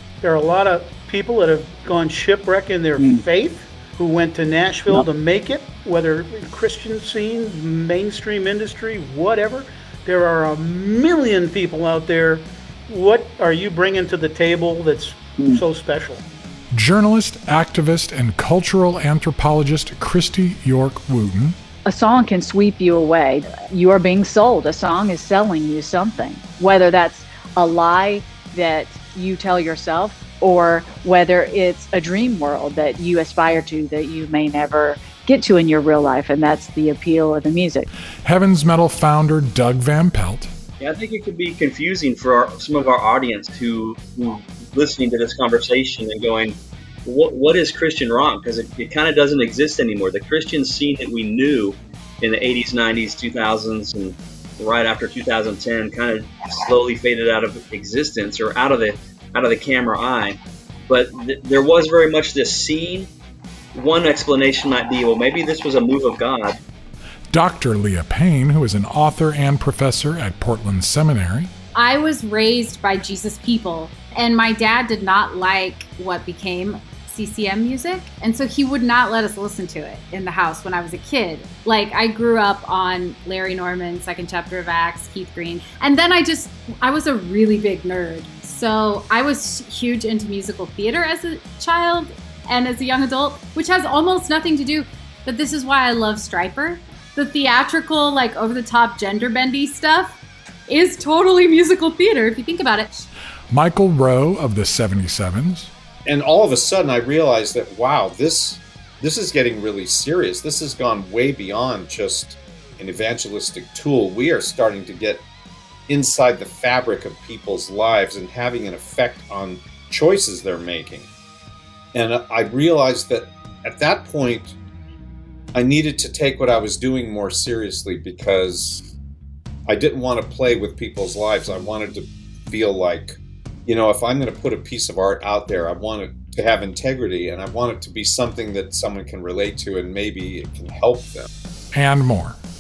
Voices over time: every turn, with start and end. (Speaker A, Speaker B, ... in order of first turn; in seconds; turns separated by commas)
Speaker A: 0.2-16.2, Speaker B: 16.7-21.6, Speaker C: 21.9-37.9, Speaker B: 38.2-40.5, Speaker D: 40.8-46.5, Speaker D: 47.1-60.4, Speaker D: 60.9-63.1, Speaker D: 63.7-66.6, Speaker B: 67.3-71.5, Speaker E: 71.7-100.2, Speaker E: 100.7-103.1, Speaker B: 103.5-105.7, Speaker F: 106.1-115.2, Speaker F: 115.9-121.1, Speaker F: 121.9-124.5, Speaker F: 125.5-128.9, Speaker F: 129.7-141.3, Speaker B: 141.7-142.4